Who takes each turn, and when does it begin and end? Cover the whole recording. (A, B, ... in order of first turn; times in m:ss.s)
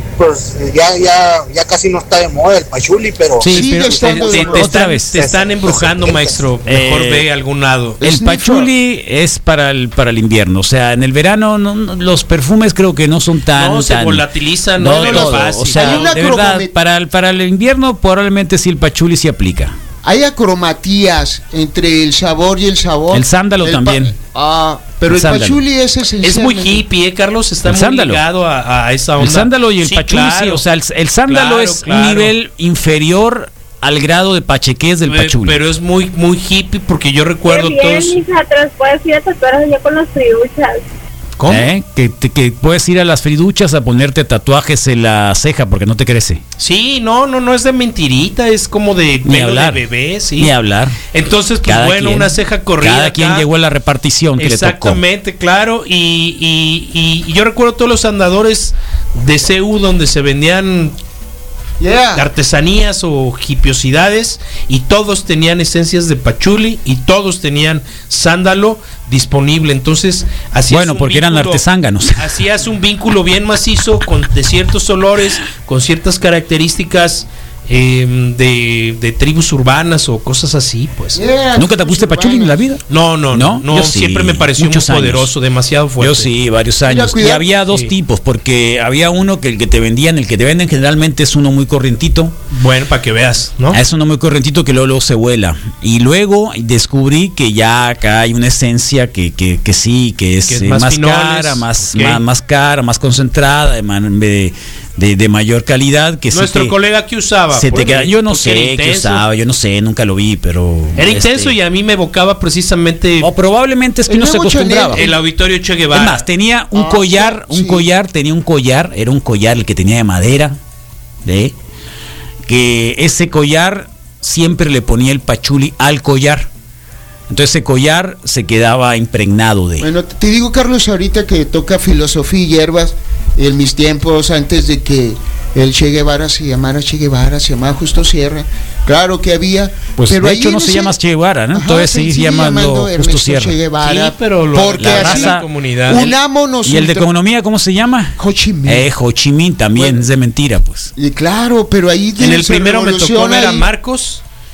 0:00.2-0:04.4 A
0:03.4-0:05.2 B
0:03.4-0:04.7 C
0:04.0-0:08.0 D
0:05.1-0:06.4 A
0:06.6-0:07.3 B
0:08.0-0:08.7 C
0:08.0-0:19.7 B
0:13.5-0:16.1 D
0:14.9-0:16.7 C
0:20.0-0:26.8 C
0:23.1-0:24.1 B
0:25.1-0:25.6 B
0:26.2-0:30.6 D
0:27.6-0:28.2 B
0:29.2-0:35.6 B
0:31.3-0:32.3 D
0:35.0-0:38.2 D
0:37.4-0:40.8 E
0:41.4-0:41.7 D
0:41.5-0:46.4 B
0:46.6-0:50.5 D
0:49.2-0:49.8 B
0:50.4-0:51.0 B
0:51.1-0:53.5 D
0:51.6-0:55.0 B
0:54.4-1:01.0 D
1:01.8-1:02.2 C
1:02.2-1:11.6 D
1:10.7-1:12.4 B
1:12.2-1:21.2 D
1:21.1-1:22.7 C
1:21.6-1:25.3 B
1:22.9-1:26.3 D
1:26.0-1:32.3 B
1:26.8-1:27.5 C
1:32.5-1:33.8 D
1:33.7-1:46.7 B
1:40.5-1:42.2 D
1:46.3-1:49.2 D
1:47.5-1:51.5 B
1:51.0-1:53.3 D
1:53.2-1:55.0 B
1:54.1-1:55.2 C
1:54.9-1:56.2 D
1:55.9-2:00.6 B
1:56.7-1:57.9 C
2:01.2-2:01.5 B
2:02.5-2:06.5 B
2:07.3-2:09.9 B
2:09.8-2:21.0 C
2:20.0-2:23.6 B
2:21.5-2:27.1 C
2:23.8-2:26.1 D
2:24.8-2:26.1 B
2:26.6-2:30.9 B
2:28.2-2:28.9 C
2:29.8-2:30.0 C
2:31.0-2:33.7 C
2:32.2-2:34.2 D